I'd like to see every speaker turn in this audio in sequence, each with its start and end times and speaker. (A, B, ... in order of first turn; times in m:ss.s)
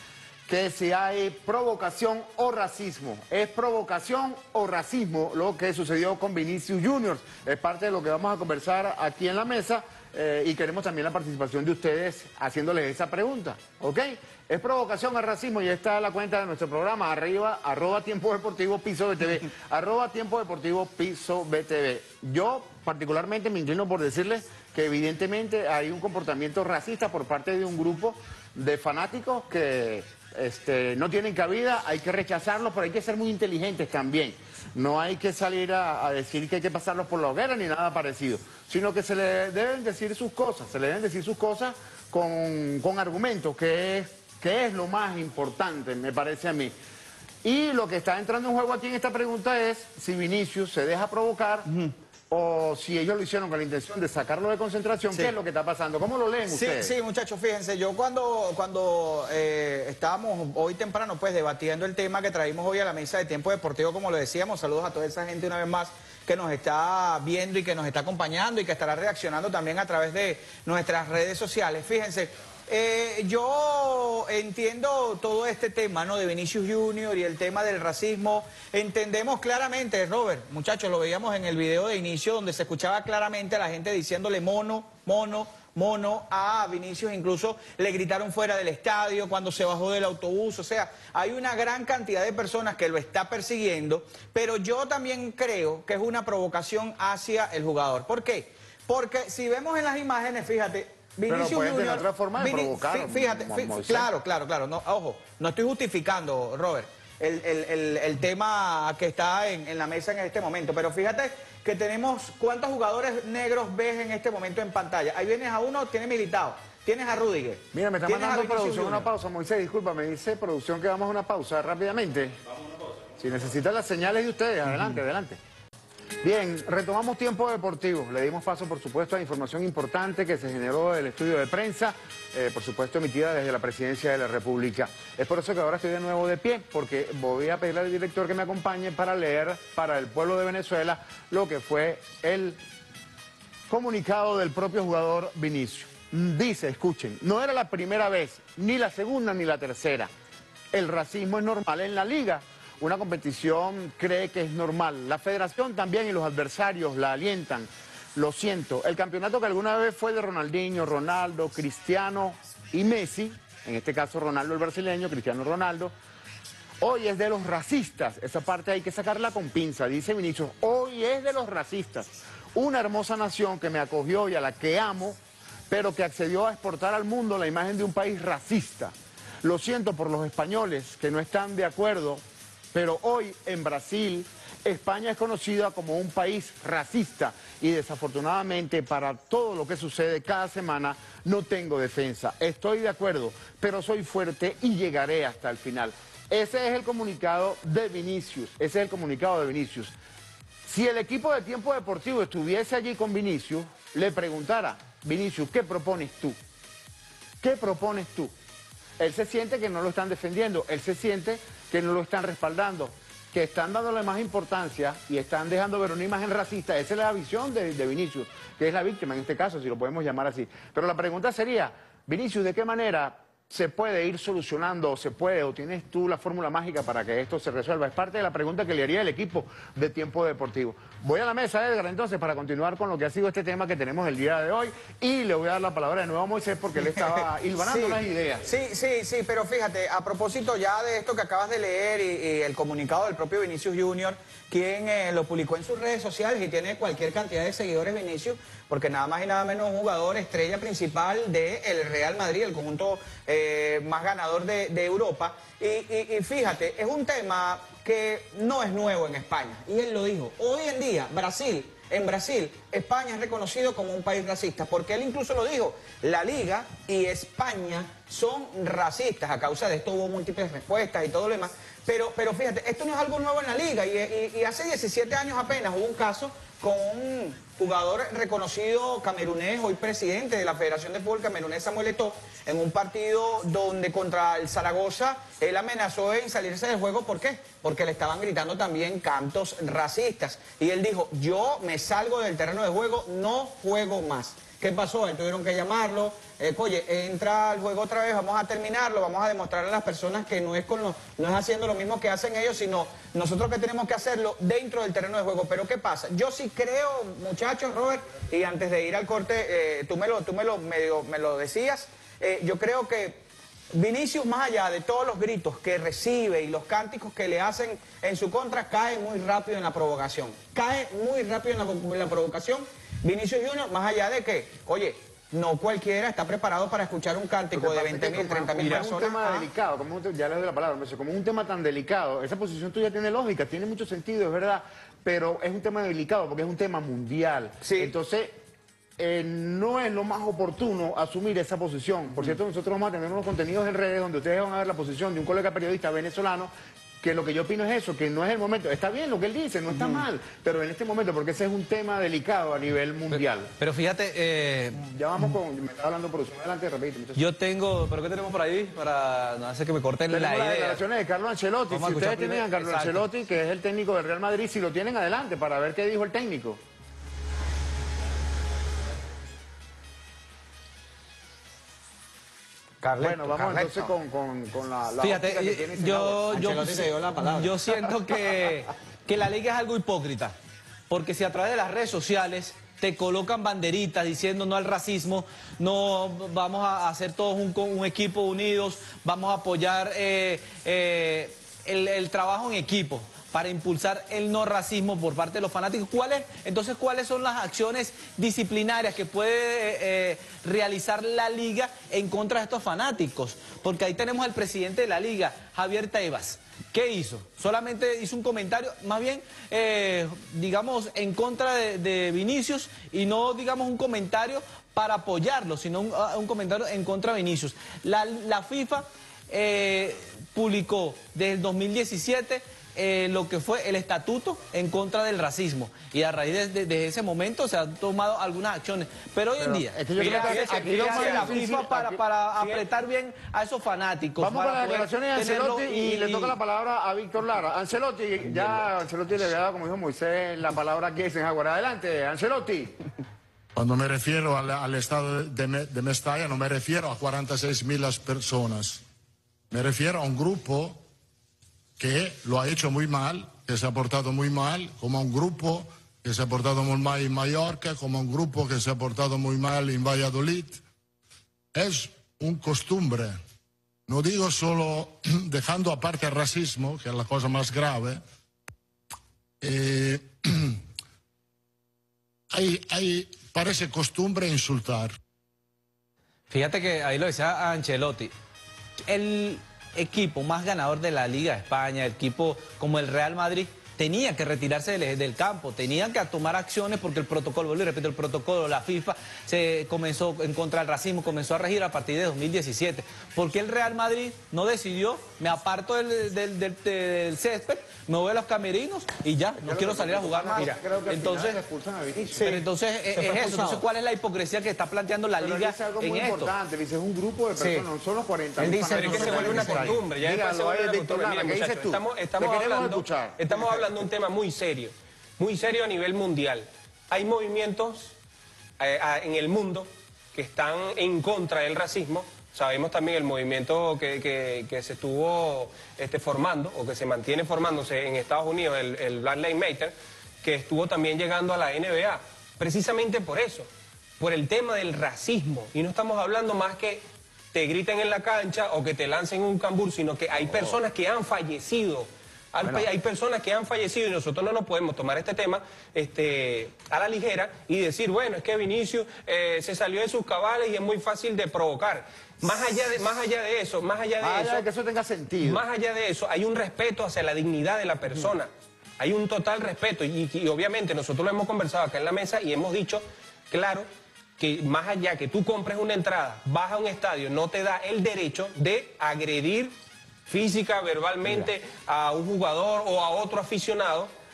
0:00.5-0:46.7 A
0:47.4-0:51.7 A
0:51.6-0:51.9 B
0:52.3-0:56.9 A
0:56.5-1:59.1 B
1:41.3-1:44.1 A
1:57.7-2:02.4 A
2:03.2-2:05.4 A
2:06.2-2:22.6 A
2:23.7-2:30.1 A
2:30.7-2:45.9 A
2:46.8-2:55.2 A
2:55.7-3:02.2 A
3:02.7-3:19.9 A
3:20.6-3:26.4 A
3:27.4-3:28.3 A
3:29.0-3:58.5 A
3:57.6-5:29.4 B
5:27.5-5:38.4 A
5:37.6-5:37.9 B
5:39.0-5:53.5 A
5:53.1-5:54.8 C
5:54.8-5:57.2 A
5:57.2-6:00.8 C
6:00.1-6:06.6 A
6:01.7-6:03.0 C
6:12.8-6:13.9 B
6:13.0-6:16.6 A
6:15.0-6:20.3 C
6:16.3-6:18.0 B
6:20.9-7:16.4 C
7:09.4-7:12.0 A
7:10.0-7:11.3 D
7:12.4-7:12.6 D
7:14.2-7:22.8 A
7:23.6-7:28.8 E
7:29.5-7:30.8 E
7:31.8-7:40.6 E
7:41.5-7:43.2 E
7:43.9-7:48.0 E
7:49.4-7:50.6 E
7:52.3-7:55.0 E
7:56.3-7:58.1 C
7:58.9-8:21.4 C
8:19.4-8:22.2 A
8:22.1-8:23.6 B
8:22.2-8:26.3 C
8:25.2-8:33.7 A
8:27.4-8:27.7 B
8:28.4-8:29.8 B
8:28.7-8:37.9 D
8:38.6-8:53.5 D
8:54.0-9:14.4 D
9:14.0-9:15.4 A
9:15.2-9:23.6 D
9:24.2-9:29.5 D
9:30.1-9:33.9 D